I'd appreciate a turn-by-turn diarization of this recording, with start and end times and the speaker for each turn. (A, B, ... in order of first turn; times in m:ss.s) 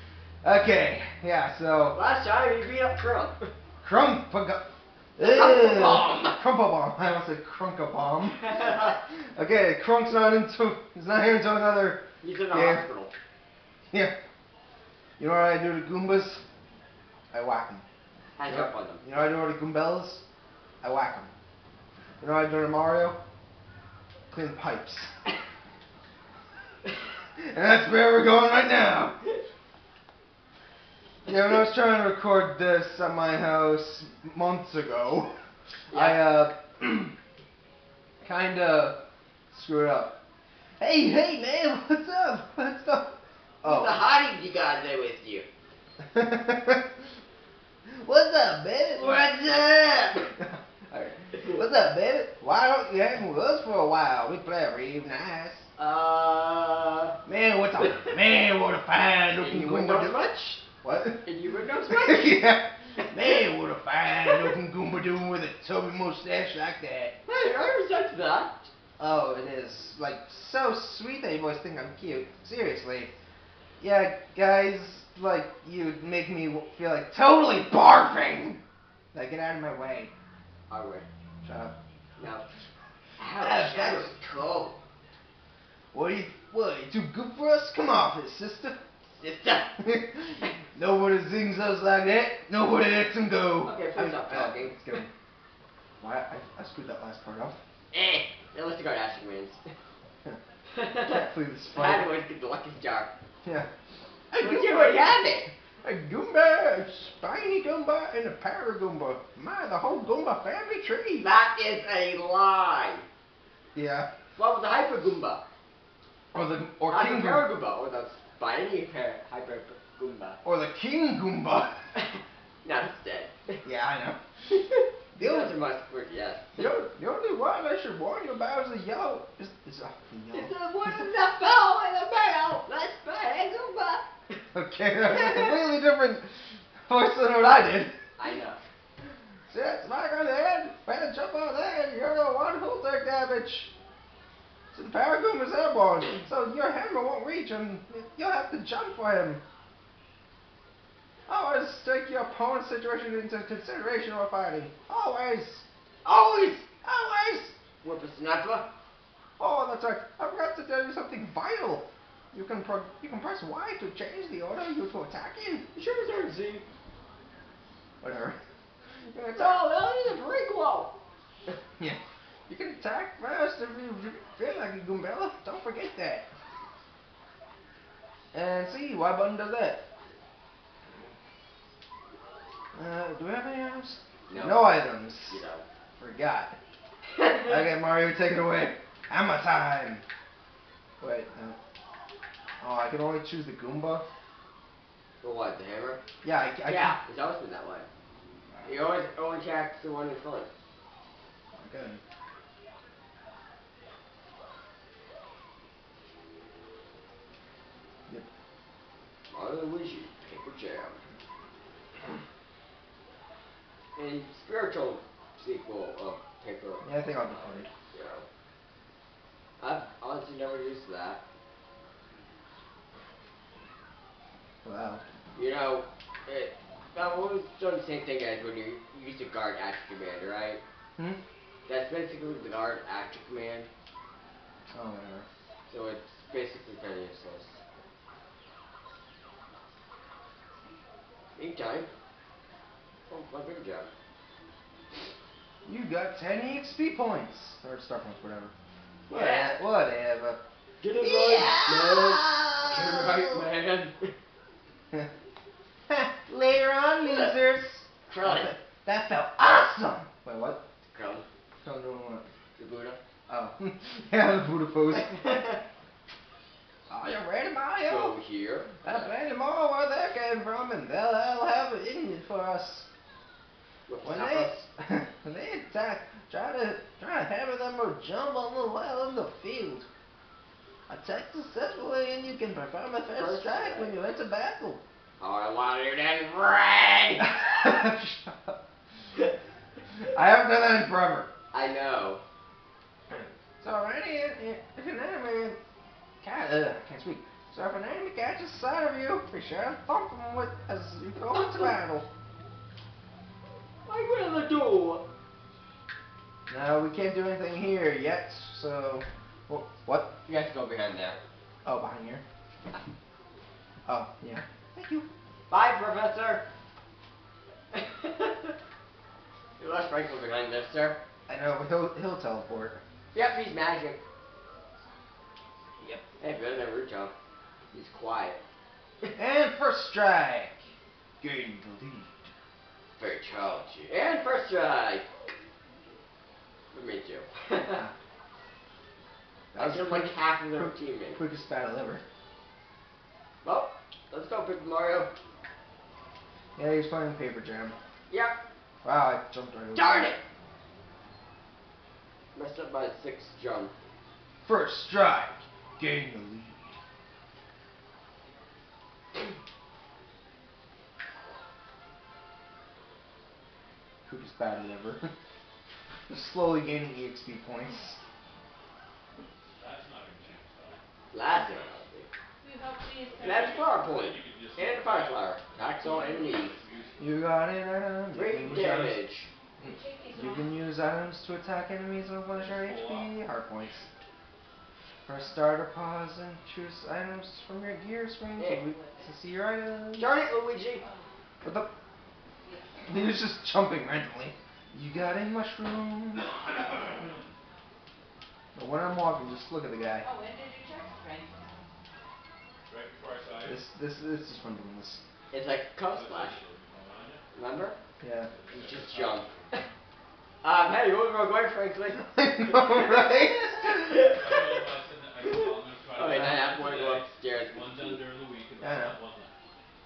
0:00.4-0:02.0 A
0:01.9-0:03.5 B
0:03.8-0:12.8 A
0:05.2-0:06.4 B
0:08.4-0:08.9 B
0:12.2-0:13.1 B
0:15.2-0:16.4 A
0:17.3-0:17.8 A
0:18.4-0:19.0 B
0:18.5-0:20.2 A
0:20.8-0:21.3 A
0:22.2-0:23.2 A
0:24.3-0:25.1 A
0:27.4-0:29.2 A
0:31.2-0:35.4 A
0:35.9-0:36.2 B
0:35.9-0:37.1 A
0:38.2-0:39.0 A
0:39.5-0:40.1 A
0:40.8-0:43.1 A
0:43.6-0:44.0 A
0:43.6-0:45.5 B
0:46.0-0:46.9 A
0:47.9-0:55.7 A
0:49.0-0:50.3 B
0:55.8-0:57.2 B
0:57.2-1:01.3 A
0:59.4-1:00.6 B
1:01.2-1:02.4 B
1:01.9-1:07.2 A
1:03.0-1:03.4 B
1:07.2-1:08.7 B
1:09.0-1:13.1 A
1:13.8-1:18.6 A
1:19.1-1:20.1 A
1:20.7-1:21.0 B
1:21.4-1:21.7 A
1:22.2-1:22.4 B
1:23.2-1:24.8 B
1:23.4-1:24.1 A
1:25.9-1:28.8 A
1:29.0-1:29.8 B
1:29.8-1:35.1 A
1:33.6-1:34.8 B
1:36.0-1:37.6 A
1:37.9-1:39.6 B
1:40.7-1:43.1 B
1:41.1-1:42.1 A
1:43.4-1:43.7 A
1:44.3-1:45.1 A
1:44.3-1:45.5 B
1:45.8-1:51.3 A
1:51.2-1:53.0 B
1:53.7-1:54.1 A
1:54.4-1:55.4 B
1:56.3-1:57.5 A
1:56.9-2:00.4 B
2:00.4-2:01.8 A
2:02.0-2:03.6 B
2:03.6-2:04.2 A
2:04.5-2:06.7 B
2:05.1-2:05.5 A
2:06.6-2:11.0 A
2:10.3-2:14.4 B
2:14.5-2:16.3 A
2:15.0-2:15.5 B
2:16.9-2:18.0 A
2:18.2-2:18.6 B
2:19.5-2:23.7 A
2:24.7-2:29.4 A
2:31.3-2:35.6 A
2:36.0-2:36.7 B
2:36.8-2:37.6 A
2:37.8-2:38.7 B
2:39.4-2:45.6 A
2:45.8-2:46.6 B
2:48.0-2:48.4 A
2:49.1-2:49.6 A
2:49.3-2:51.0 B
2:51.8-2:56.3 A
2:58.3-2:59.8 A
3:02.7-3:05.4 A
3:04.3-3:05.6 B
3:06.0-3:06.6 A
3:07.4-3:10.0 A
3:11.0-3:11.6 A
3:12.6-3:14.0 A
3:15.2-3:16.0 B
3:16.2-3:17.0 A
3:16.7-3:17.9 B
3:18.6-3:20.5 B
3:21.6-3:22.0 A
3:29.3-3:31.0 B
3:34.0-3:36.9 B
3:36.8-3:37.7 A
3:37.9-3:38.2 B
3:39.6-3:41.2 B
3:44.6-3:45.0 A
3:45.4-3:50.6 B
3:51.7-3:53.7 B
3:54.7-3:55.3 A
3:55.7-3:57.6 B
4:01.4-4:01.9 B
4:03.1-4:03.9 B
4:05.6-4:08.5 A
4:09.1-4:09.6 B
4:09.1-4:10.4 A
4:10.8-4:14.1 B
4:11.0-4:13.4 A
4:15.9-4:20.6 A
4:17.0-4:17.3 B
4:18.1-4:18.6 B
4:20.9-4:21.2 B
4:21.6-4:22.2 A
4:22.6-4:23.0 B
4:23.3-4:25.4 A
4:24.9-4:25.6 B
4:26.9-4:28.1 A
4:27.8-4:28.8 B
4:28.8-4:32.9 A
4:33.9-4:34.6 B
4:34.0-4:39.9 A
4:40.9-4:44.8 A
4:43.2-4:44.0 B
4:45.2-4:47.7 B
4:47.2-4:48.6 A
4:50.1-4:51.3 A
4:51.5-4:52.2 B
4:53.1-4:55.6 A
4:56.2-5:02.1 A
5:03.9-5:05.0 B
5:06.5-5:10.1 A
5:10.2-5:11.2 B
5:11.6-5:12.2 A
5:13.8-5:15.1 A
5:15.5-5:16.4 B
5:17.7-5:18.5 B
5:19.6-5:21.0 B
5:21.3-5:22.8 A
5:23.1-5:24.0 B
5:25.8-5:27.1 B
5:27.7-5:28.4 B
5:29.2-5:30.6 A
5:31.2-5:32.3 A
5:33.0-5:35.1 B
5:36.7-5:37.8 B
5:39.5-5:42.0 A
5:39.6-5:41.2 B
5:43.4-5:45.1 B
5:46.6-5:47.8 A
5:48.1-5:48.4 B
5:48.8-5:50.2 A
5:49.8-5:50.2 B
5:52.3-5:53.7 B
5:54.4-5:56.8 A
6:04.1-6:05.1 A
6:06.1-6:08.0 A
6:09.6-6:10.8 C
6:11.1-6:12.1 B
6:12.4-6:13.6 D
6:13.2-6:16.6 B
6:13.2-6:17.0 C
6:17.0-6:19.0 A
6:18.1-6:19.3 B
6:19.6-6:23.9 A
6:19.7-6:20.6 D
6:22.3-6:23.1 C
6:25.1-6:30.3 A
6:28.4-6:28.6 B
6:28.7-6:29.1 D
6:29.9-6:30.8 B
6:30.8-6:31.1 D
6:31.4-6:31.7 A
6:32.4-6:33.0 D
6:32.8-6:36.8 A
6:38.5-6:40.1 A
6:40.0-6:41.7 D
6:42.7-6:43.6 C
6:43.4-6:45.0 A
6:45.3-6:46.4 B
6:45.9-6:47.2 C
6:47.3-6:47.8 B
6:48.0-6:48.3 A
6:48.3-6:49.7 C
6:48.5-6:49.3 B
6:50.4-6:54.6 B
6:52.0-6:54.1 A
6:54.0-6:59.4 C
6:55.2-6:58.0 B
6:58.6-6:59.0 A